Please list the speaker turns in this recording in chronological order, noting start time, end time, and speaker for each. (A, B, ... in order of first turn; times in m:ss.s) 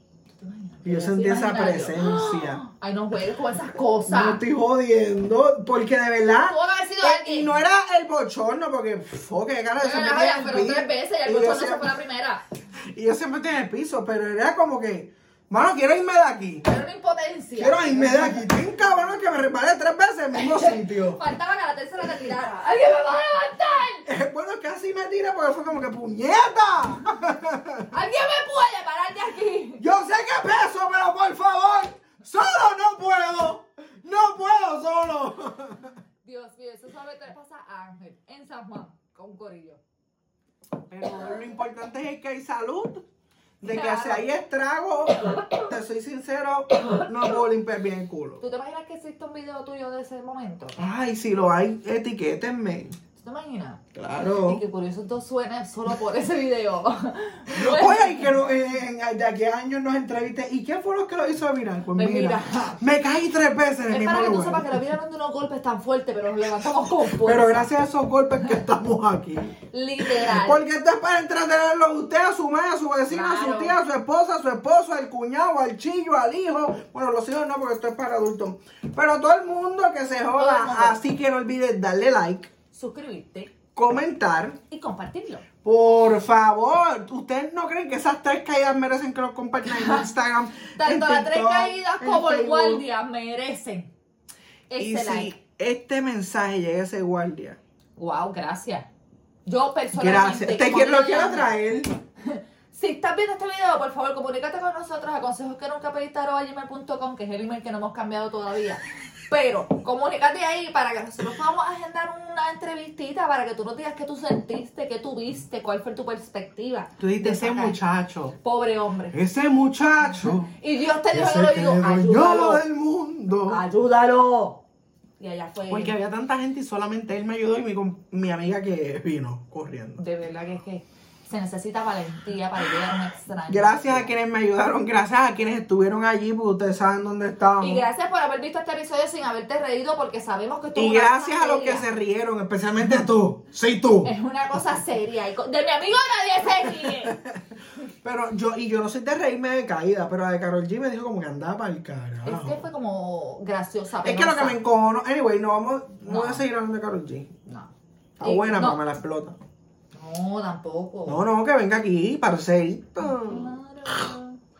0:00.4-0:04.4 A
0:00.8-0:02.6 B
0:04.0-0:11.9 B
0:06.4-0:07.6 A
0:09.8-0:12.4 A
0:12.9-0:16.6 B
0:16.6-0:18.5 A
0:17.6-0:21.2 B
0:20.3-0:24.1 A
0:24.0-0:27.9 B
0:27.9-0:29.8 A
0:29.8-0:35.9 B
0:36.2-0:39.8 A
0:40.9-0:43.0 B
0:43.6-0:44.3 A
0:43.6-0:48.4 B
0:48.4-0:50.8 A
0:50.8-0:53.0 B
0:53.2-0:58.4 A
0:53.9-0:54.6 B
0:57.5-1:04.8 B
1:01.9-1:02.8 A
1:03.9-1:07.7 A
1:07.2-1:22.5 B
1:09.6-1:10.6 A
1:13.1-1:13.8 A
1:20.3-1:21.0 A
1:22.7-1:23.5 A
1:23.7-1:24.6 B
1:24.7-1:25.4 A
1:25.6-1:32.8 B
1:29.6-1:30.0 A
1:30.8-1:33.9 A
1:34.7-1:35.4 A
1:34.8-1:37.6 B
1:38.0-1:38.9 A
1:39.4-1:41.5 A
1:39.9-1:42.0 B
1:42.2-1:57.8 A
1:57.0-1:58.3 B
1:58.4-1:59.2 A
1:59.1-2:00.5 B
2:00.2-2:02.6 A
2:01.1-2:03.6 B
2:03.5-2:04.6 A
2:05.2-2:05.9 A
2:05.7-2:10.0 B
2:10.0-2:14.1 A
2:13.5-2:17.8 B
2:17.6-2:21.9 A
2:20.7-2:24.1 B
2:24.0-2:27.2 A
2:26.6-2:32.6 B
2:32.2-2:34.6 A
2:34.0-2:37.3 B
2:36.0-2:36.4 A
2:37.5-2:38.8 A
2:38.2-2:39.4 B
2:39.9-2:41.2 A
2:41.1-2:44.0 B
2:43.0-2:44.4 A